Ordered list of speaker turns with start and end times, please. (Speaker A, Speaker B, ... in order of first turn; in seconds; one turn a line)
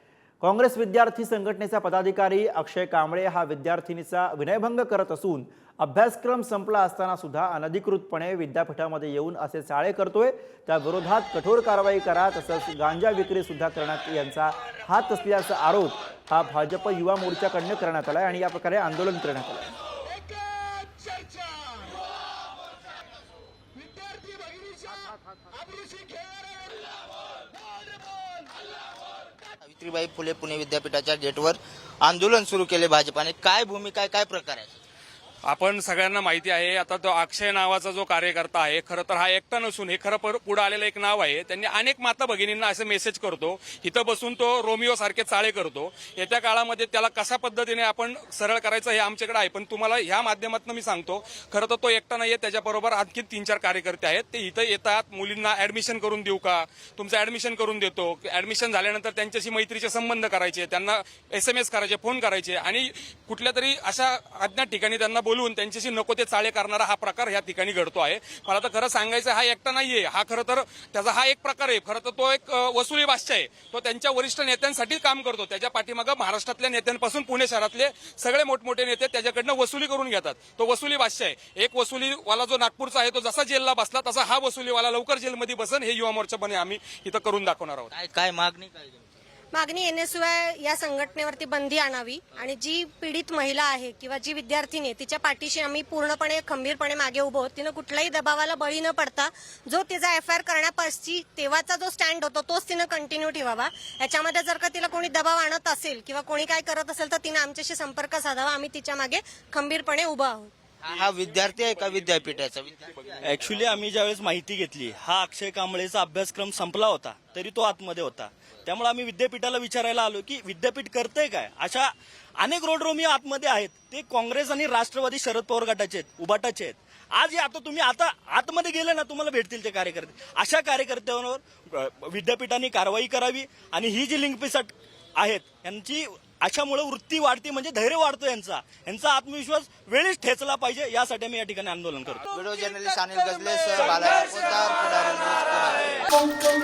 Speaker A: 0.4-19.8
Speaker B: 29.6-34.7
Speaker C: 35.5-87.9
Speaker B: 87.9-89.0
Speaker D: 89.5-110.5
Speaker B: 110.8-113.0
Speaker E: 113.2-142.3
Speaker B: 142.3-145.8